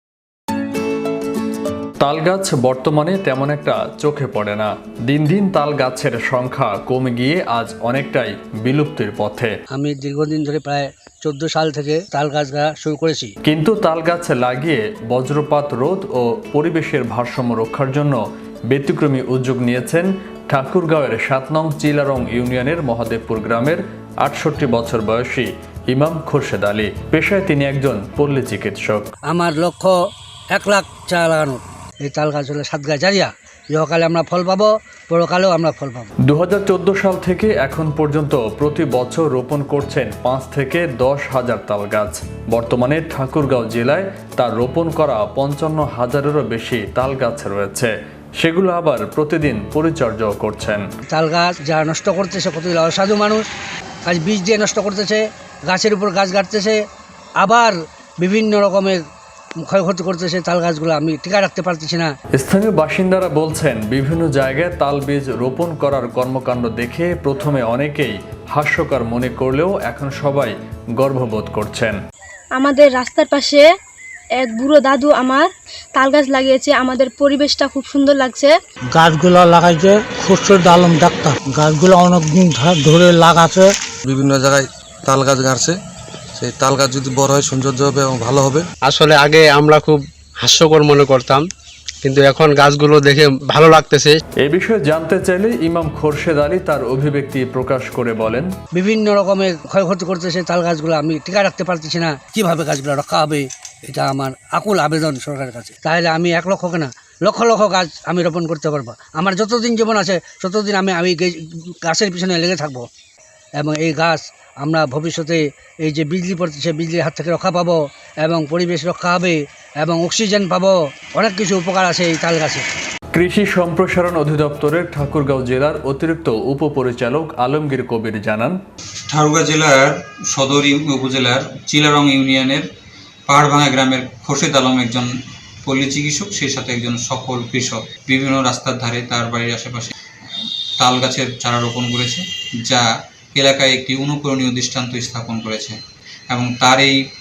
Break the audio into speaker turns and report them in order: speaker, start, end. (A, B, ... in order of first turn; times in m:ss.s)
0:02.0-0:09.5 A
0:09.7-0:13.3 B
0:13.4-0:29.1 A
0:29.3-0:29.9 B
0:30.5-0:36.1 B
0:36.2-0:50.8 A
0:51.1-0:53.5 B
0:54.0-0:56.8 B
0:57.4-0:59.0 B
0:59.6-1:02.1 B
1:02.4-1:12.0 A
1:12.6-1:13.6 C
1:14.4-1:18.5 C
1:19.0-1:23.7 D
1:24.1-1:25.7 E
1:26.4-1:28.6 E
1:28.9-1:31.4 F
1:32.0-1:34.1 F
1:34.4-1:38.5 A
1:38.7-1:52.9 B
1:53.6-2:02.6 B
2:03.1-2:08.6 A
2:09.1-2:12.7 G
2:13.3-2:15.1 G
2:15.6-2:19.9 G
2:20.8-2:25.8 G
2:26.3-2:27.0 G